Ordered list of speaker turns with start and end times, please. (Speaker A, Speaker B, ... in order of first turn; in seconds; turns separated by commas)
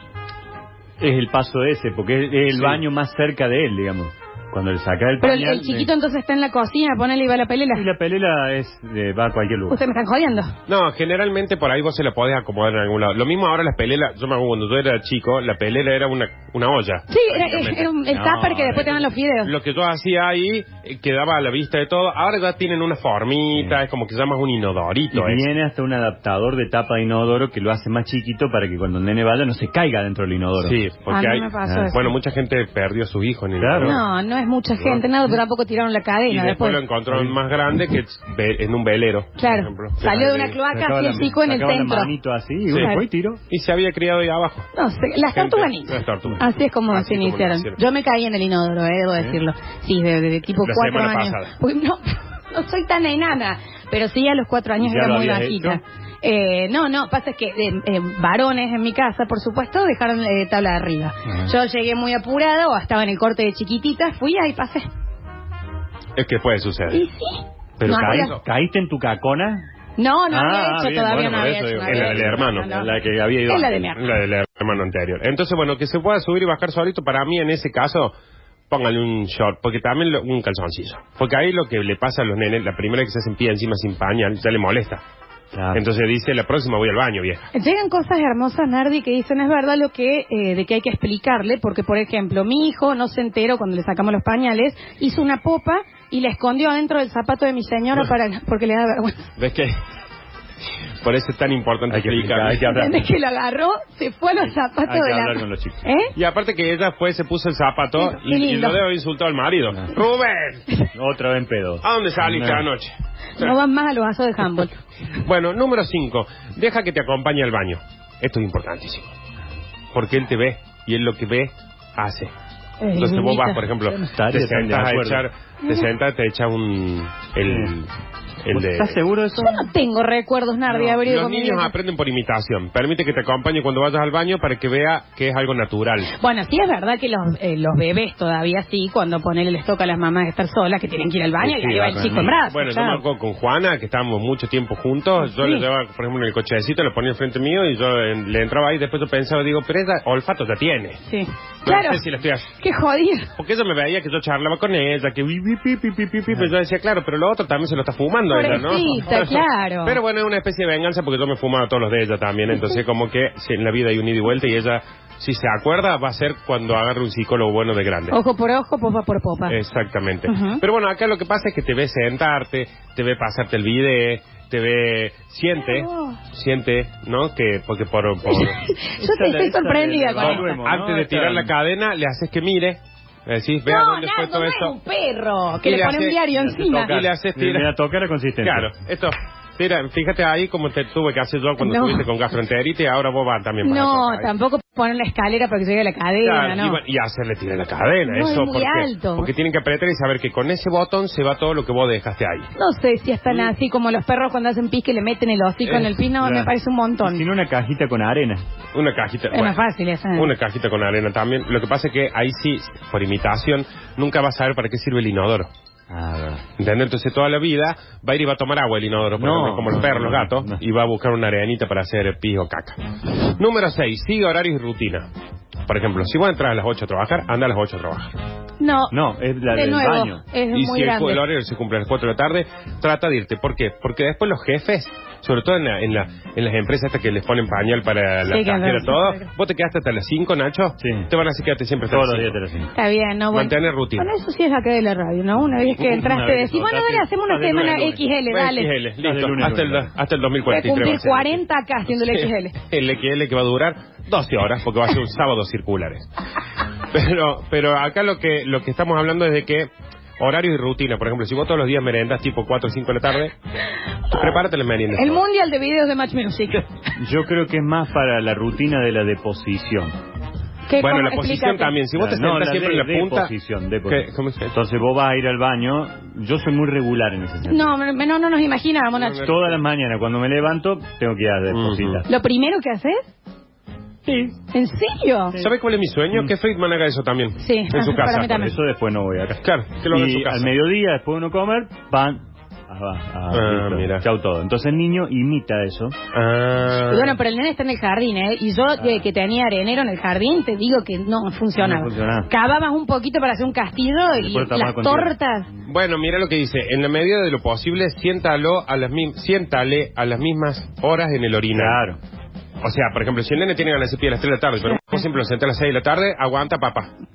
Speaker A: 1.0-5.9, Speaker B: 2.5-2.8, Speaker C: 5.2-7.9, Speaker A: 7.7-9.8, Speaker C: 9.7-10.5, Speaker B: 10.7-17.9, Speaker C: 17.1-19.5, Speaker A: 17.5-19.1, Speaker B: 19.4-25.4, Speaker A: 25.1-30.8, Speaker B: 30.6-34.0, Speaker C: 31.1-32.1, Speaker A: 31.6-31.9, Speaker A: 33.6-34.0, Speaker C: 33.8-36.8, Speaker B: 36.3-40.6, Speaker A: 37.1-37.4, Speaker C: 39.4-42.1, Speaker A: 40.7-43.4, Speaker B: 42.7-42.9, Speaker B: 43.5-44.7, Speaker C: 44.7-64.9, Speaker B: 45.3-47.8, Speaker B: 50.6-51.5, Speaker A: 54.8-55.8, Speaker B: 66.1-67.0, Speaker C: 66.9-68.4, Speaker A: 67.8-69.6, Speaker B: 67.8-68.4, Speaker C: 70.0-74.1, Speaker A: 70.3-73.9, Speaker B: 71.8-72.7, Speaker B: 74.0-78.1, Speaker B: 78.7-85.0, Speaker A: 85.5-85.8, Speaker B: 85.7-87.5, Speaker C: 87.5-99.3, Speaker B: 99.4-99.8, Speaker B: 101.0-102.7, Speaker A: 101.9-103.0, Speaker C: 102.6-106.1, Speaker A: 104.8-105.8, Speaker B: 106.1-110.6, Speaker C: 108.0-108.8, Speaker A: 110.9-112.7, Speaker B: 111.8-113.5, Speaker C: 113.4-114.8, Speaker B: 115.2-119.1, Speaker B: 119.9-122.3, Speaker C: 122.8-123.7, Speaker B: 122.9-127.9, Speaker A: 123.9-125.2, Speaker A: 127.5-127.7, Speaker B: 128.4-129.0, Speaker A: 128.5-129.7, Speaker C: 129.3-131.7, Speaker B: 130.7-136.1, Speaker C: 136.1-143.0, Speaker A: 141.4-142.3, Speaker B: 142.4-151.0, Speaker C: 145.3-145.6, Speaker C: 151.1-152.0, Speaker B: 151.6-152.5, Speaker C: 152.6-153.3, Speaker B: 153.3-168.2, Speaker C: 158.3-160.0, Speaker C: 168.1-169.6, Speaker B: 169.4-178.6, Speaker C: 170.2-170.6, Speaker C: 175.6-176.2, Speaker C: 178.2-180.5, Speaker A: 179.0-181.5, Speaker B: 180.2-184.8, Speaker C: 183.7-186.9, Speaker B: 185.6-186.2, Speaker A: 186.3-188.7, Speaker B: 186.8-187.7, Speaker B: 188.4-194.3, Speaker C: 191.6-192.1, Speaker C: 193.6-196.8, Speaker B: 196.2-202.5, Speaker C: 198.1-199.3, Speaker C: 202.5-207.2, Speaker A: 206.1-206.5, Speaker A: 207.0-208.4, Speaker B: 208.7-209.6, Speaker C: 209.3-210.3, Speaker B: 210.1-215.5, Speaker A: 215.9-216.4, Speaker B: 216.6-225.1, Speaker A: 219.2-220.6, Speaker B: 225.7-228.1, Speaker C: 228.6-228.9, Speaker A: 228.9-230.2, Speaker C: 229.5-231.2, Speaker B: 230.5-242.4, Speaker C: 238.2-239.2, Speaker A: 240.8-241.1, Speaker A: 241.9-242.7, Speaker C: 242.7-248.7, Speaker B: 243.3-244.1, Speaker A: 245.7-248.0, Speaker B: 248.3-251.4, Speaker A: 249.0-249.9, Speaker C: 250.4-252.6, Speaker B: 252.0-256.1, Speaker B: 256.9-263.3, Speaker C: 264.1-264.4, Speaker B: 264.1-265.2, Speaker C: 264.9-266.7, Speaker A: 267.0-269.9, Speaker C: 270.7-271.8, Speaker B: 270.8-273.3, Speaker A: 271.9-277.7, Speaker B: 273.9-274.5, Speaker C: 277.4-279.3, Speaker B: 278.9-279.6, Speaker A: 279.2-282.1, Speaker B: 281.5-282.0, Speaker C: 282.1-283.1, Speaker A: 284.1-284.4, Speaker C: 284.5-285.4, Speaker B: 285.4-288.5, Speaker C: 287.4-288.5, Speaker A: 288.0-295.9, Speaker B: 289.4-290.5, Speaker B: 293.3-294.1, Speaker B: 296.1-297.1, Speaker C: 296.9-305.5, Speaker A: 301.6-302.3, Speaker A: 304.1-305.1, Speaker B: 305.6-311.8, Speaker A: 311.5-312.0, Speaker B: 312.6-316.9